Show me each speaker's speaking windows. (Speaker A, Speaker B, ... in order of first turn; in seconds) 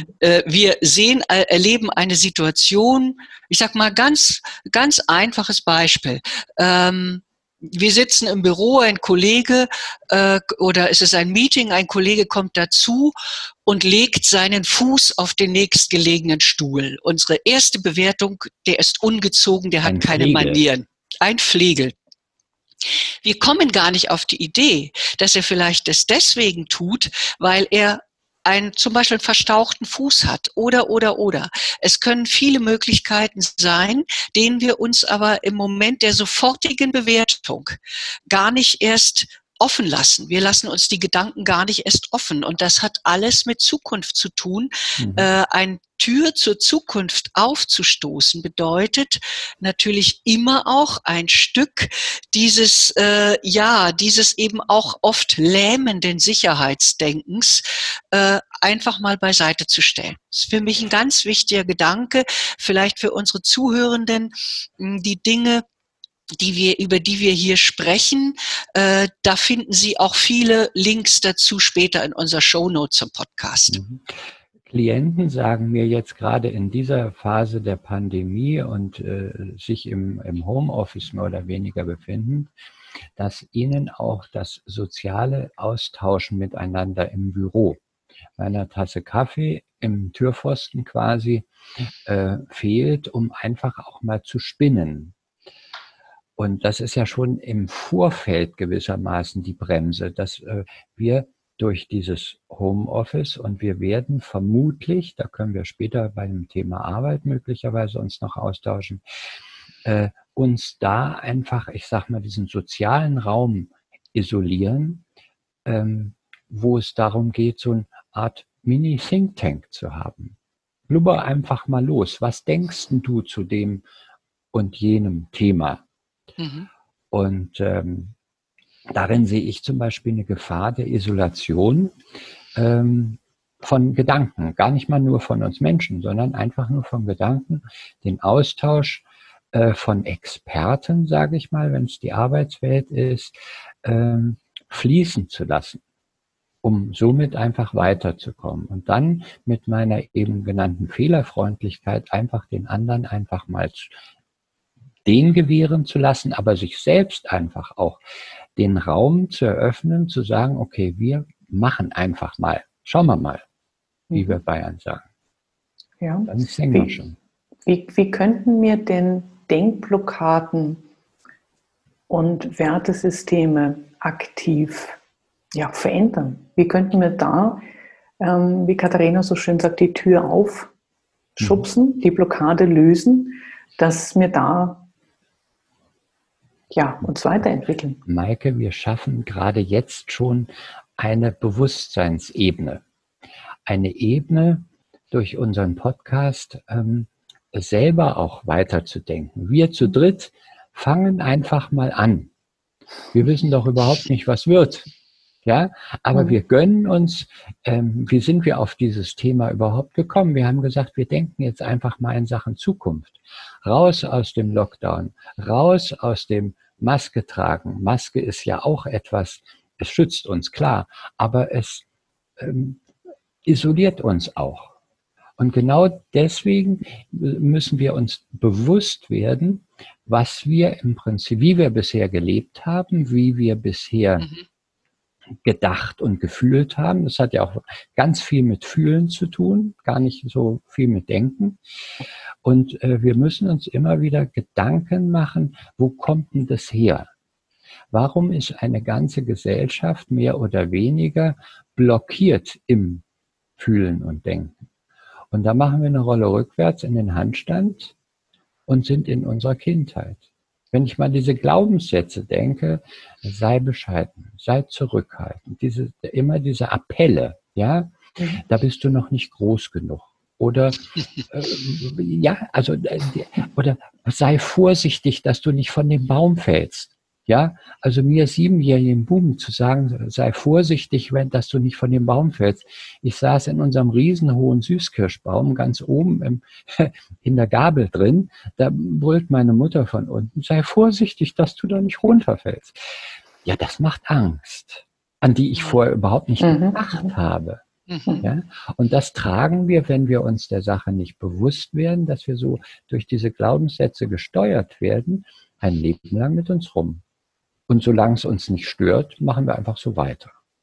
Speaker A: 0.2-13.1, 13.7-21.9, 23.2-37.8, 38.3-65.6, 66.4-73.8, 126.4-126.7, 297.9-298.2
Speaker B: 19.8-20.6, 45.0-45.3, 73.7-82.5, 83.2-87.8, 88.4-91.5, 92.0-95.1, 96.4-109.0, 109.8-115.0, 115.6-120.3, 120.9-123.8, 124.5-125.8, 127.1-128.1, 128.9-132.0, 132.5-145.8, 146.6-153.9, 155.0-158.0, 158.6-163.4, 164.1-165.0, 166.3-167.2, 188.1-192.8, 193.7-202.3, 203.1-204.9, 205.4-221.8, 222.4-222.8, 223.4-224.7, 225.4-234.3, 235.4-241.6, 242.4-247.1, 247.9-253.0, 253.6-254.6, 255.3-257.9, 258.7-292.8, 293.4-297.6, 298.2-307.0, 307.7-310.3
Speaker C: 166.0-166.9, 167.7-170.8, 172.1-175.0, 175.5-177.6, 178.2-180.7, 181.4-184.8, 186.7-188.0, 296.4-297.1